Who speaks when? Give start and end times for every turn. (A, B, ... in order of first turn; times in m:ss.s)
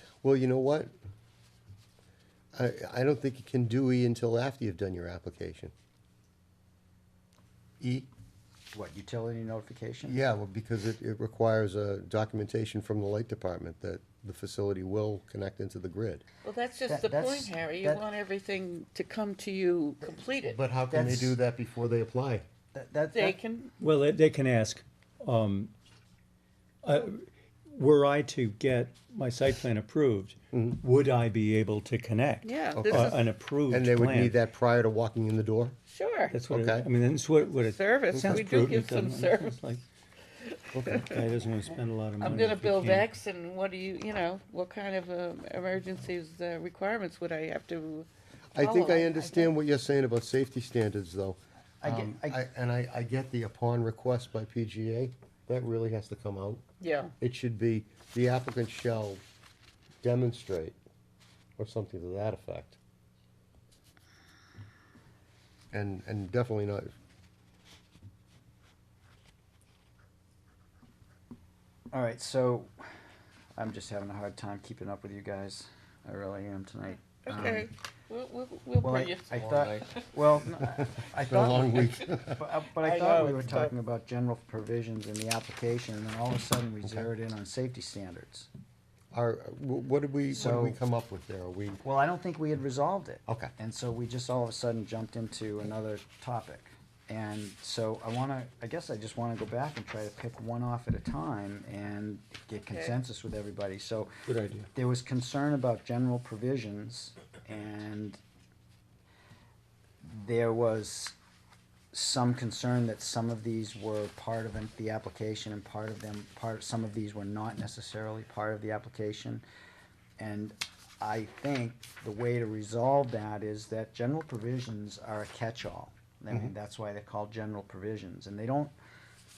0:00.2-0:00.9 A
0:02.5-0:05.7 A
0:07.8-0:08.1 A
0:08.7-0:10.2 B
0:10.1-0:16.2 A
0:16.4-0:20.6 C
0:16.9-0:18.0 B
0:20.5-0:22.4 A
0:20.9-0:21.4 B
0:22.7-0:23.4 B
0:23.1-0:23.7 C
0:23.8-0:25.7 D
0:26.8-0:34.4 D
0:30.5-0:30.8 A
0:32.4-0:33.3 C
0:32.7-0:35.8 A
0:35.9-0:36.4 C
0:36.3-0:39.8 D
0:36.5-0:36.9 A
0:37.6-0:39.6 C
0:38.1-0:38.4 A
0:40.4-0:41.2 C
0:40.7-0:41.0 A
0:40.9-0:43.1 D
0:42.2-0:49.5 C
0:48.5-0:56.6 A
0:51.8-0:52.4 B
0:56.8-0:57.1 C
0:57.2-0:59.2 A
1:00.0-1:00.8 A
1:01.6-1:02.8 A
1:05.7-1:06.9 A
1:11.9-1:12.7 B
1:13.6-1:17.7 B
1:17.2-1:20.1 C
1:18.8-1:28.5 B
1:20.8-1:22.5 A
1:22.8-1:23.7 C
1:29.1-1:31.8 A
1:30.3-1:30.8 B
1:31.8-1:44.1 B
1:42.6-1:43.0 C
1:44.3-1:44.7 D
1:44.7-1:48.2 B
1:50.0-1:51.2 B
1:51.9-1:59.4 B
2:00.2-2:08.7 B